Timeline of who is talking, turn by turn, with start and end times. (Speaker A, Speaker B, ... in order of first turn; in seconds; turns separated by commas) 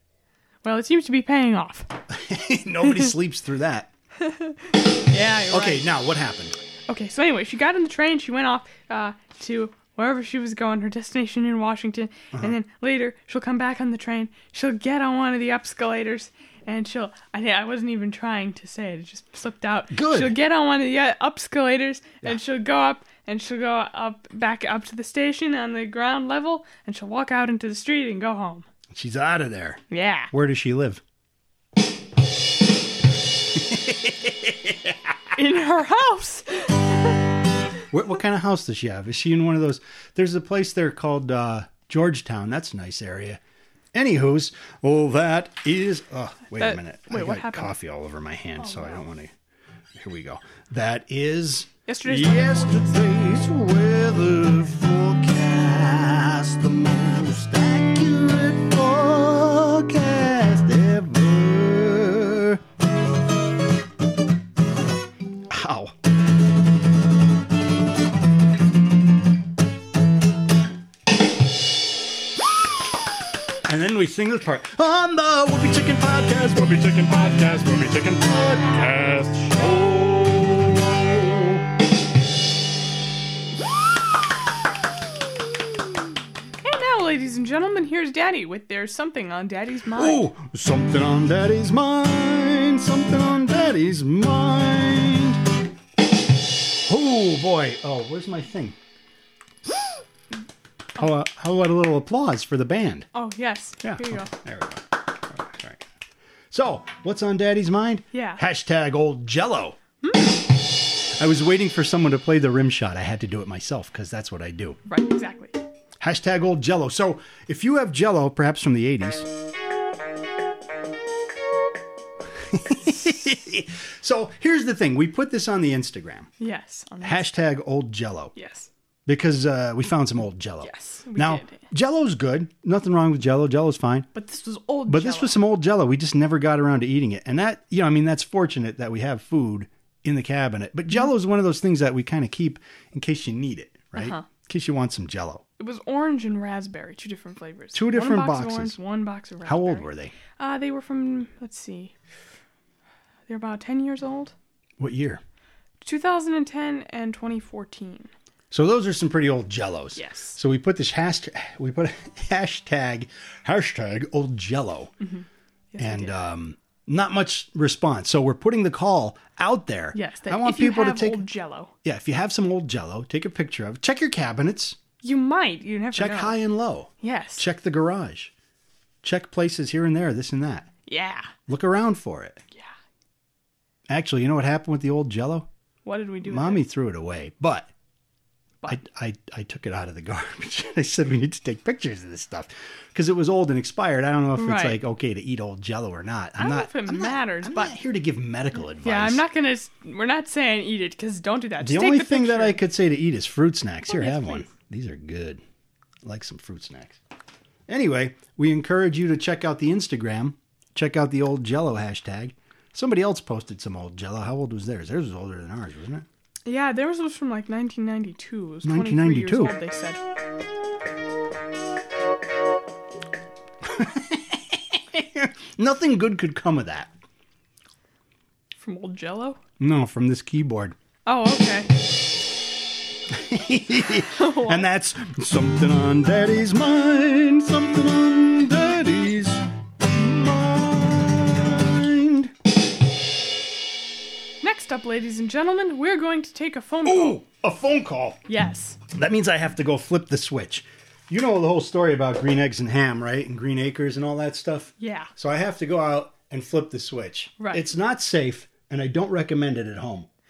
Speaker A: 0.6-1.9, Speaker B: 2.1-3.9, Speaker A: 2.8-3.1, Speaker A: 4.2-5.9, Speaker B: 5.5-6.6, Speaker A: 6.9-28.7, Speaker B: 19.9-20.4, Speaker B: 28.9-29.8, Speaker A: 29.9-30.3, Speaker B: 30.3-31.0, Speaker B: 33.5-34.9, Speaker A: 35.4-37.2, Speaker B: 37.9-43.4, Speaker B: 43.9-49.3, Speaker A: 46.6-47.7, Speaker A: 48.6-49.0, Speaker B: 50.0-62.6, Speaker A: 51.9-53.0, Speaker B: 65.5-65.9, Speaker B: 73.7-81.6, Speaker A: 86.6-90.3, Speaker B: 90.0-95.4, Speaker B: 96.9-98.8, Speaker B: 101.0-103.1, Speaker A: 103.1-104.3, Speaker B: 103.8-105.8, Speaker B: 106.5-109.8, Speaker A: 108.1-108.4, Speaker A: 110.0-110.4, Speaker B: 111.2-114.8, Speaker A: 114.9-115.6, Speaker B: 116.0-119.3, Speaker B: 122.5-126.3, Speaker A: 126.4-127.3, Speaker B: 127.0-128.3, Speaker A: 128.3-128.7, Speaker B: 129.1-134.1, Speaker A: 130.6-131.7, Speaker A: 134.1-135.4, Speaker B: 134.9-145.4, Speaker A: 143.9-144.3, Speaker A: 145.6-151.9, Speaker B: 147.7-148.8, Speaker B: 149.4-150.1, Speaker A: 153.3-154.3, Speaker B: 154.8-155.2, Speaker A: 155.8-158.1, Speaker B: 158.5-164.9, Speaker A: 159.9-160.4, Speaker A: 165.0-166.2, Speaker B: 165.8-171.2, Speaker A: 169.9-171.7, Speaker B: 171.8-174.8, Speaker A: 175.0-176.4, Speaker B: 175.9-178.3, Speaker A: 177.0-177.5, Speaker B: 179.0-180.7, Speaker A: 180.9-181.3, Speaker B: 181.5-182.4, Speaker B: 183.9-185.5, Speaker A: 185.8-186.7, Speaker B: 186.3-187.7, Speaker B: 188.7-199.2, Speaker A: 194.3-194.8, Speaker A: 196.4-197.8, Speaker A: 198.8-202.6, Speaker B: 201.6-205.4, Speaker A: 203.9-204.5, Speaker B: 206.0-207.0, Speaker B: 207.7-216.1, Speaker A: 216.5-220.0, Speaker B: 218.6-219.6, Speaker B: 223.6-226.9, Speaker A: 228.6-229.4, Speaker B: 229.6-230.8, Speaker A: 231.1-231.7, Speaker B: 233.1-242.3, Speaker A: 234.0-234.7, Speaker A: 244.4-247.2, Speaker B: 246.8-248.2, Speaker A: 248.3-248.8, Speaker B: 248.9-260.1, Speaker A: 254.8-255.1, Speaker A: 257.4-257.7